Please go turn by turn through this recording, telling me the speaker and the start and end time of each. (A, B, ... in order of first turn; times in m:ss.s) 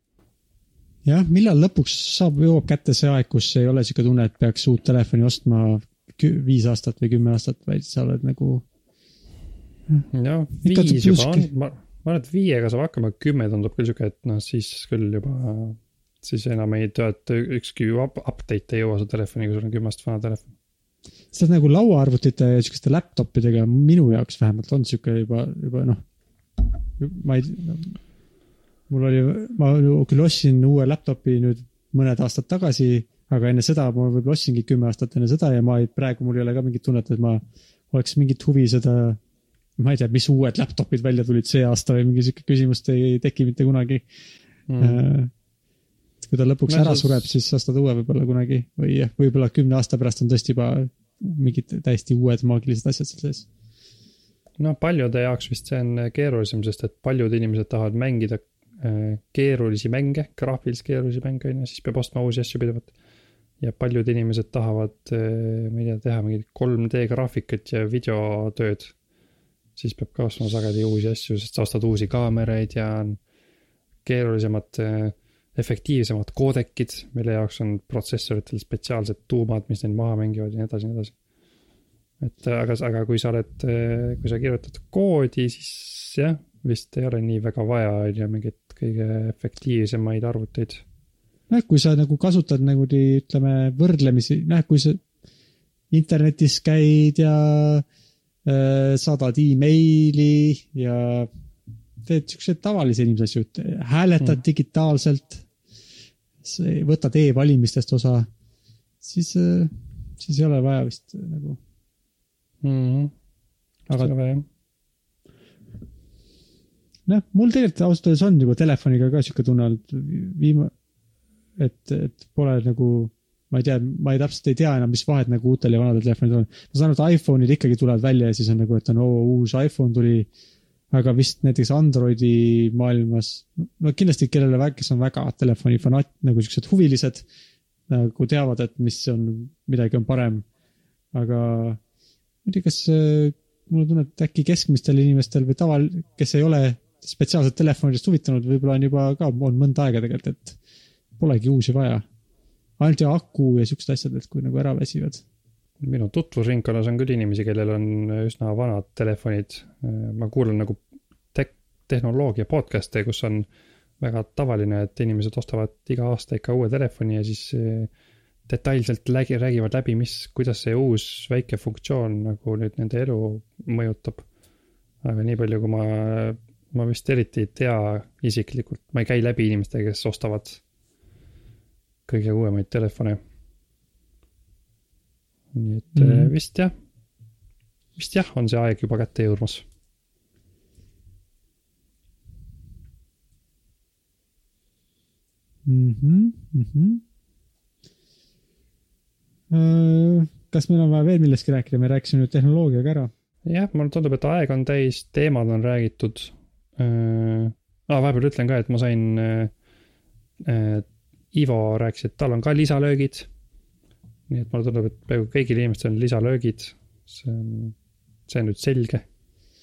0:01.0-0:08.6 A
0:10.1-0:20.5 B
0:10.6-0:11.5 A
0:21.3-0:26.0 A
0:27.0-0:28.0 A
0:28.9-0:39.2 A
0:39.8-0:44.1 A
0:44.7-0:45.0 B
0:44.8-0:45.3 A
0:46.2-0:53.5 A
0:46.7-0:47.3 B
0:54.6-1:02.9 B
1:03.6-1:08.9 B
1:09.8-1:13.2 B
1:14.0-1:21.2 B
1:22.2-1:30.8 B
1:31.5-1:35.0 A
1:35.9-1:37.8 A
1:38.4-1:41.3 A
1:42.0-1:45.5 A
1:46.4-1:48.3 A
1:49.0-1:51.6 A
1:52.6-1:53.1 B
1:53.9-1:54.5 B
1:57.1-2:00.7 A
2:01.6-2:10.3 A
2:10.9-2:17.3 A
2:17.9-2:20.4 A
2:21.1-2:21.8 A
2:22.4-2:30.6 A
2:31.2-2:32.0 A
2:32.8-2:35.2 A
2:35.8-2:40.8 B
2:41.3-2:43.5 B
2:44.0-2:47.9 B
2:48.5-2:54.2 B
2:55.0-3:00.6 B
3:02.1-3:03.2 B
3:05.5-3:06.7 B
3:06.0-3:06.3 A
3:08.0-3:09.6 B
3:15.7-3:17.0 A
3:19.5-3:23.1 A
3:23.5-3:29.5 B
3:30.4-3:33.3 B
3:34.3-3:37.8 B
3:38.3-3:39.0 B